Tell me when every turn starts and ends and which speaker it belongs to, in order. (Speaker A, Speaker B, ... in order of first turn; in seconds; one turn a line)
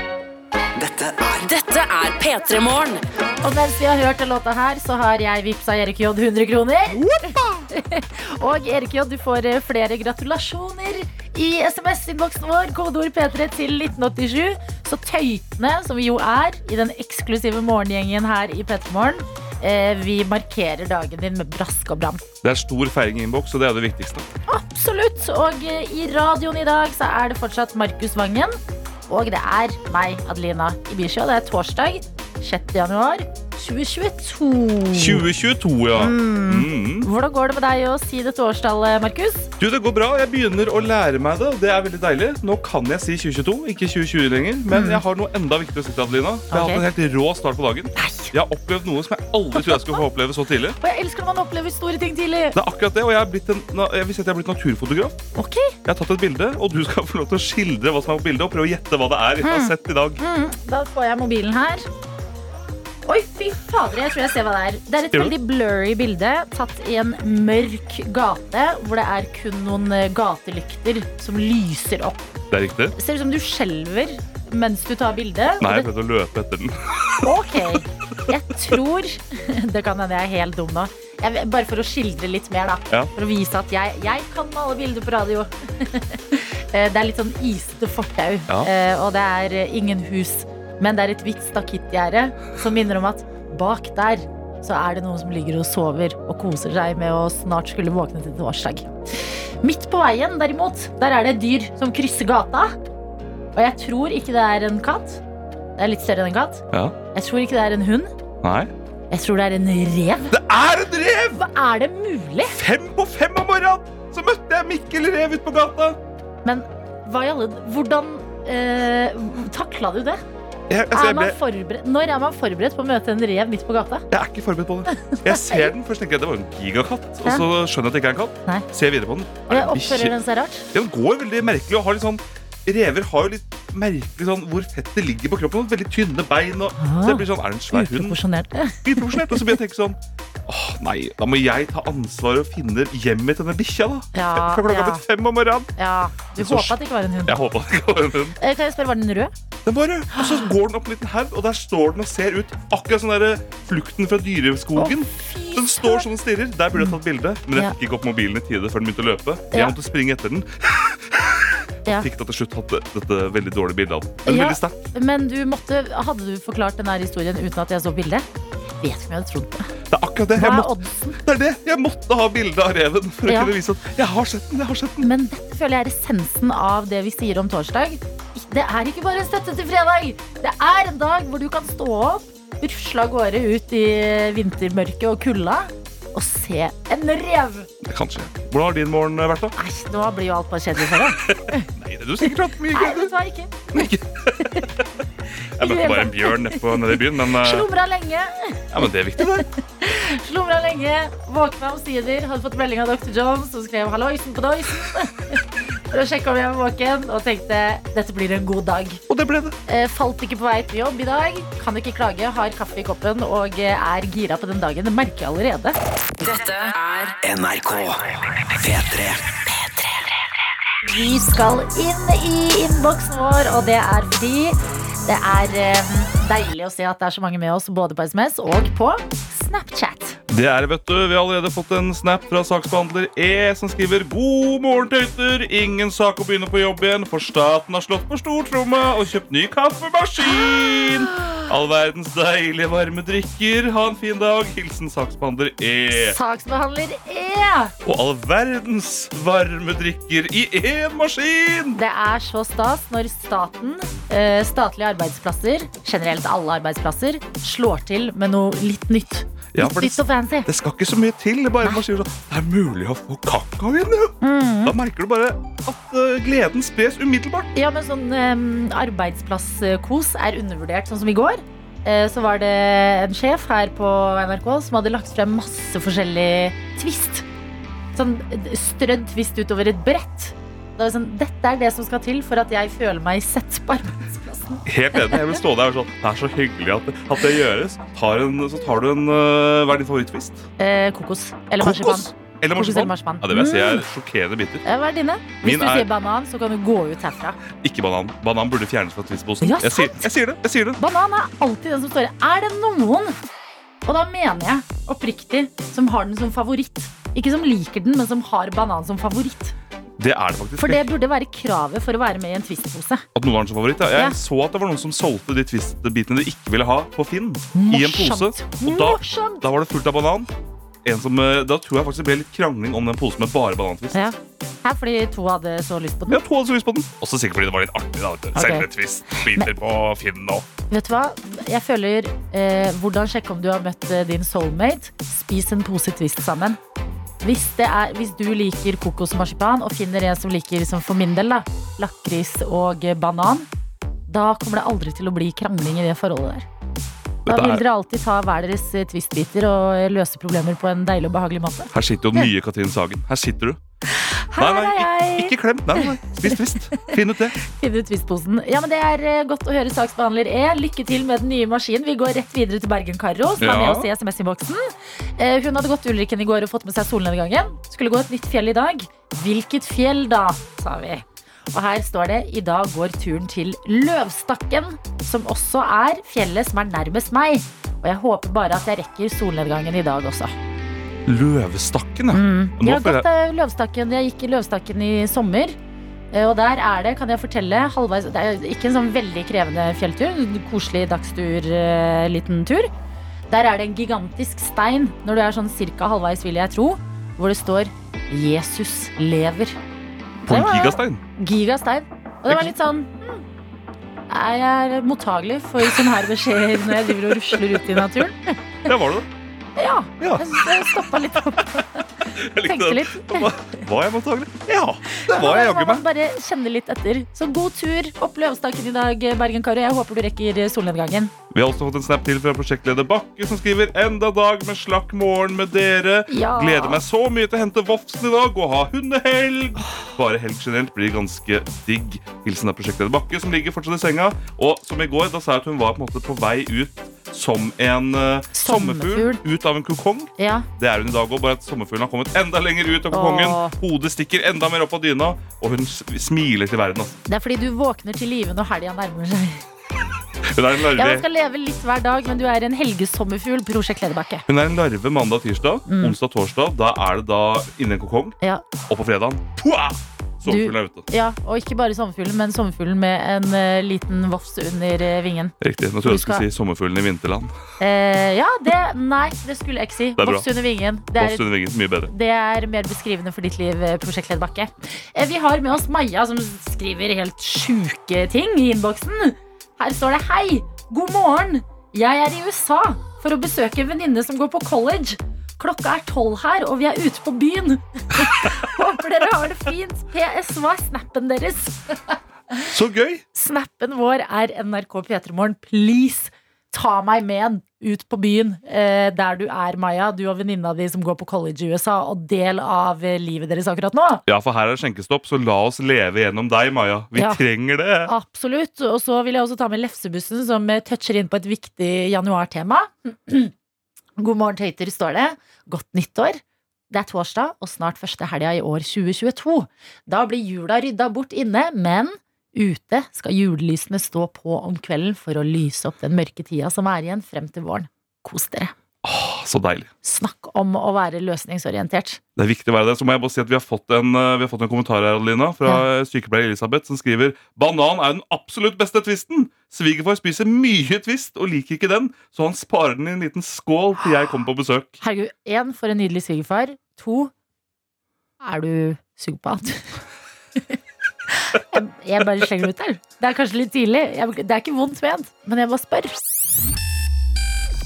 Speaker A: 0.8-1.4
Speaker B: 1.4-3.0
Speaker C: 3.4-22.2
Speaker D: 7.0-7.6
Speaker D: 22.4-24.3
Speaker C: 24.5-35.2
Speaker D: 34.9-37.1
Speaker C: 36.0-39.5
Speaker D: 39.6-50.8
Speaker C: 44.7-45.0
Speaker C: 46.5-46.8
Speaker C: 48.0-48.3
Speaker C: 49.6-50.0
Speaker C: 50.8-52.6
Speaker D: 52.5-55.2
Speaker C: 55.3-55.8
Speaker D: 55.8-60.2
Speaker C: 59.4-61.9
Speaker C: 63.0-72.2
Speaker D: 65.1-65.3
Speaker D: 72.5-72.9
Speaker C: 72.9-75.9
Speaker D: 75.6-77.8
Speaker C: 77.2-98.9
Speaker C: 99.6-102.7
Speaker C: 103.5-105.2
Speaker C: 105.8-108.1
Speaker D: 108.4-108.7
Speaker C: 109.1-110.3
Speaker D: 110.3-111.4
Speaker C: 111.3-112.6
Speaker D: 112.5-116.0
Speaker C: 116.4-120.2
Speaker D: 120.7-121.4
Speaker C: 120.9-124.0
Speaker D: 124.1-130.2
Speaker C: 124.9-125.7
Speaker C: 129.5-130.7
Speaker D: 130.7-138.2
Speaker C: 136.8-139.6
Speaker D: 138.8-145.7
Speaker C: 144.1-145.0
Speaker C: 145.8-147.4
Speaker D: 146.4-148.4
Speaker C: 148.4-149.3
Speaker D: 149.7-164.8
Speaker C: 150.1-150.4
Speaker C: 154.8-156.1
Speaker C: 164.2-168.2
Speaker C: 168.8-169.7
Speaker D: 169.9-175.1
Speaker C: 170.3-171.2
Speaker C: 173.3-173.5
Speaker C: 175.0-187.7
Speaker D: 187.8-189.5
Speaker C: 189.6-191.7
Speaker D: 190.9-193.1
Speaker C: 192.7-193.9
Speaker D: 193.7-194.8
Speaker D: 195.6-197.7
Speaker C: 195.6-209.0
Speaker D: 198.7-199.5
Speaker D: 209.1-209.6
Speaker C: 209.7-215.8
Speaker B: 216.2-217.2
Speaker A: 217.2-219.4
Speaker C: 220.8-230.2
Speaker D: 230.3-246.2
Speaker C: 240.3-241.4
Speaker C: 245.9-247.7
Speaker D: 247.8-251.8
Speaker C: 251.7-260.5
Speaker D: 259.5-267.5
Speaker C: 264.2-264.8
Speaker C: 267.5-277.2
Speaker C: 277.9-285.4
Speaker D: 284.6-290.5
Speaker C: 290.6-293.9
Speaker D: 291.6-294.6
Speaker C: 294.6-297.4
Speaker D: 295.4-295.9
Speaker D: 297.6-300.8
Speaker C: 299.4-300.1
Speaker C: 300.8-303.1
Speaker C: 303.8-309.5
Speaker D: 310.0-310.9
Speaker C: 310.6-313.0
Speaker D: 313.1-320.3
Speaker C: 313.9-314.2
Speaker C: 317.5-319.4
Speaker D: 320.8-324.1
Speaker C: 323.9-326.2
Speaker D: 326.1-330.4
Speaker C: 328.3-329.5
Speaker C: 330.7-336.6
Speaker C: 337.2-343.5
Speaker C: 344.1-346.4
Speaker D: 347.2-347.6
Speaker C: 347.2-352.3
Speaker D: 351.7-353.6
Speaker C: 353.9-380.3
Speaker D: 354.4-357.3
Speaker D: 363.4-363.9
Speaker D: 381.1-383.1
Speaker C: 382.1-385.6
Speaker C: 386.1-392.7
Speaker C: 393.3-399.6
Speaker D: 400.2-401.0
Speaker C: 400.3-403.2
Speaker D: 402.3-402.5
Speaker C: 404.1-408.4
Speaker D: 406.5-408.0
Speaker D: 408.6-409.1
Speaker C: 409.6-413.3
Speaker D: 410.0-410.8
Speaker D: 412.1-415.8
Speaker C: 414.9-421.1
Speaker D: 421.3-447.0
Speaker C: 426.1-426.8
Speaker C: 438.3-439.2
Speaker C: 440.2-440.5
Speaker C: 442.9-443.6
Speaker C: 447.1-449.4
Speaker D: 450.3-451.1
Speaker C: 450.8-454.2
Speaker D: 454.3-458.2
Speaker C: 455.6-455.9
Speaker D: 458.7-460.8
Speaker C: 460.2-466.2
Speaker D: 465.4-467.3
Speaker C: 467.6-471.2
Speaker D: 470.0-470.2
Speaker D: 470.9-471.9
Speaker C: 471.9-491.6
Speaker D: 488.0-488.4
Speaker D: 492.5-493.0
Speaker C: 493.1-504.0
Speaker D: 504.1-507.9
Speaker C: 506.9-507.2
Speaker C: 507.8-513.3
Speaker C: 514.0-528.5
Speaker D: 528.8-529.7
Speaker C: 529.8-532.0
Speaker D: 532.1-544.8
Speaker C: 544.8-547.1
Speaker C: 548.2-549.8
Speaker C: 551.1-556.0